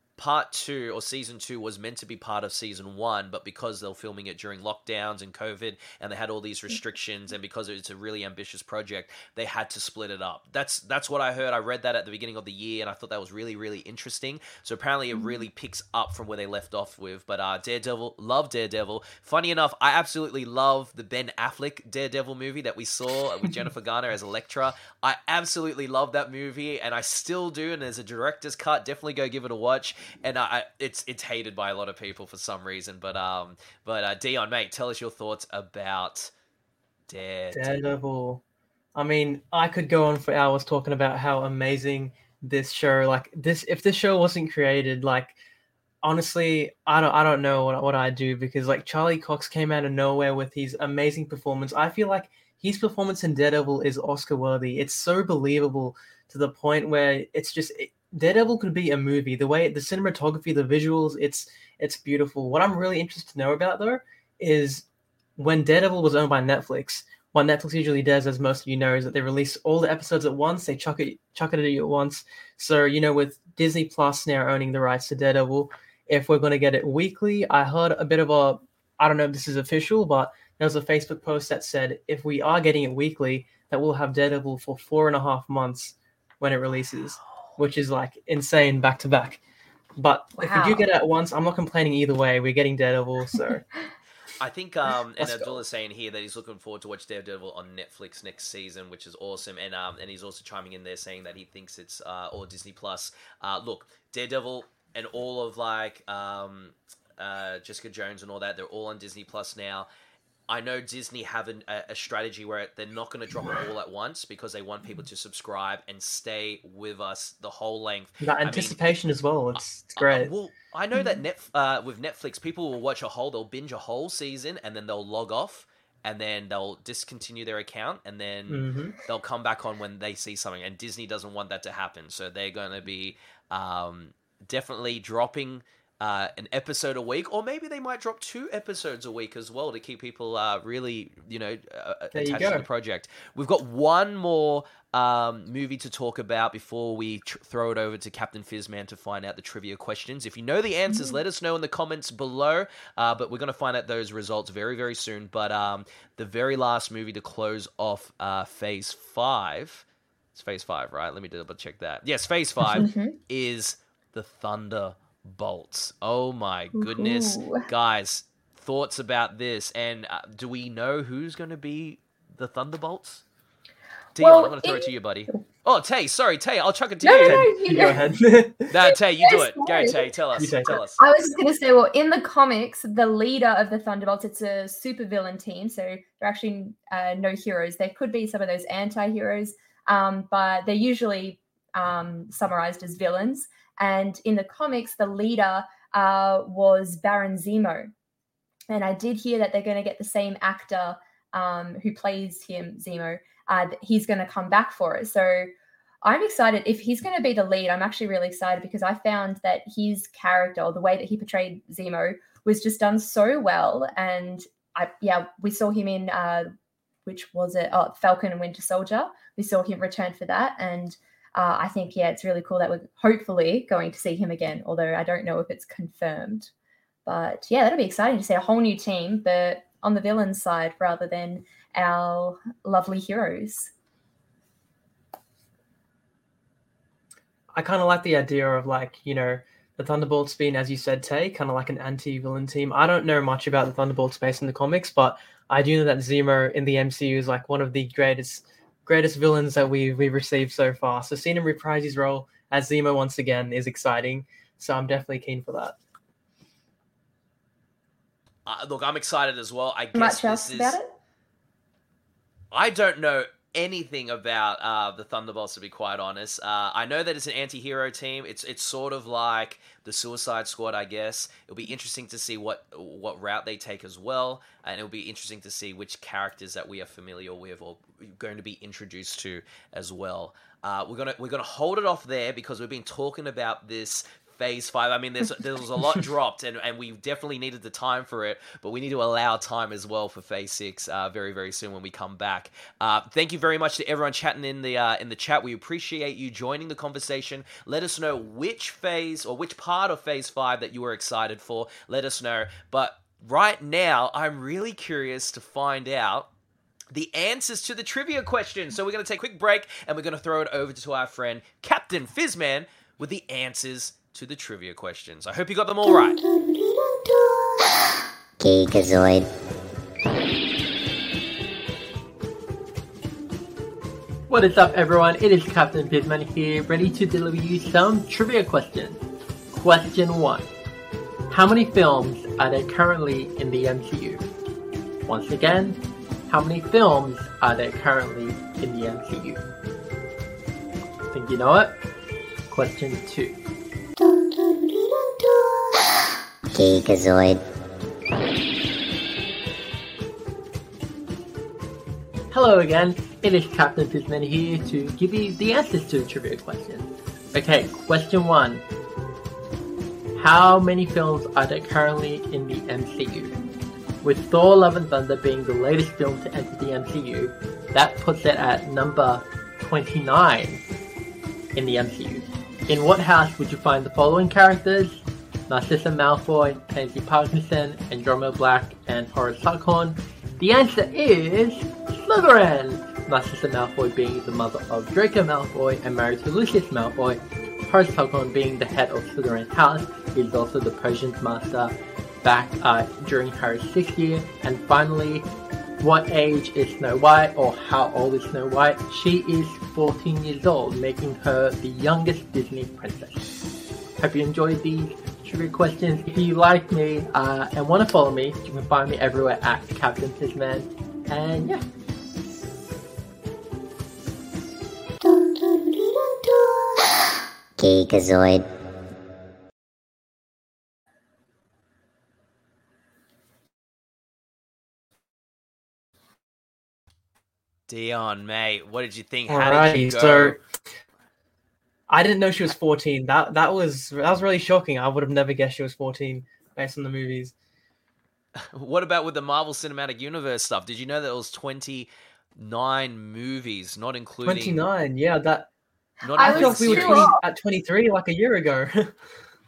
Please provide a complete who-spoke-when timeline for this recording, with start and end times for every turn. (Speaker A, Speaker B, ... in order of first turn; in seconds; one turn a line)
Speaker A: 0.2-36.3
Speaker A: 37.1-37.9
Speaker B: 37.5-38.4
Speaker B: 39.0-45.4
Speaker B: 46.0-64.9
Speaker B: 65.4-89.4
Speaker B: 90.0-93.7
Speaker C: 90.4-90.8
Speaker A: 94.4-109.9
Speaker B: 95.2-95.6
Speaker A: 110.5-118.8
Speaker B: 118.2-120.3
Speaker A: 119.6-159.8
Speaker C: 121.0-121.2
Speaker B: 128.5-128.9
Speaker B: 142.1-142.7
Speaker C: 150.9-151.2
Speaker A: 160.3-173.2
Speaker C: 162.8-163.2
Speaker C: 166.7-167.7
Speaker A: 174.2-177.5
Speaker C: 174.2-175.4
Speaker C: 177.0-178.0
Speaker B: 177.2-178.8
Speaker A: 178.7-181.0
Speaker C: 179.2-180.1
Speaker B: 180.4-180.8
Speaker C: 181.0-197.9
Speaker C: 198.7-205.5
Speaker C: 206.0-216.5
Speaker C: 217.1-226.5
Speaker C: 227.1-233.7
Speaker B: 237.5-255.8
Speaker A: 258.5-260.8
Speaker C: 259.9-260.9
Speaker A: 262.5-306.3
Speaker A: 306.9-316.2
Speaker D: 315.8-319.3
Speaker E: 324.3-330.5
Speaker E: 331.3-334.2
Speaker E: 335.1-339.4
Speaker E: 341.1-341.8
Speaker E: 342.5-343.4
Speaker D: 344.0-347.4
Speaker E: 352.3-358.6
Speaker E: 360.1-363.4
Speaker E: 364.0-370.6
Speaker E: 371.6-395.3
Speaker E: 395.8-403.3
Speaker E: 404.0-411.6
Speaker D: 415.0-418.5
Speaker A: 427.7-430.4
Speaker B: 429.3-430.4
Speaker B: 431.9-437.3
Speaker A: 438.4-444.6
Speaker B: 444.2-445.5
Speaker A: 446.0-447.1
Speaker C: 446.1-447.2
Speaker B: 446.2-449.0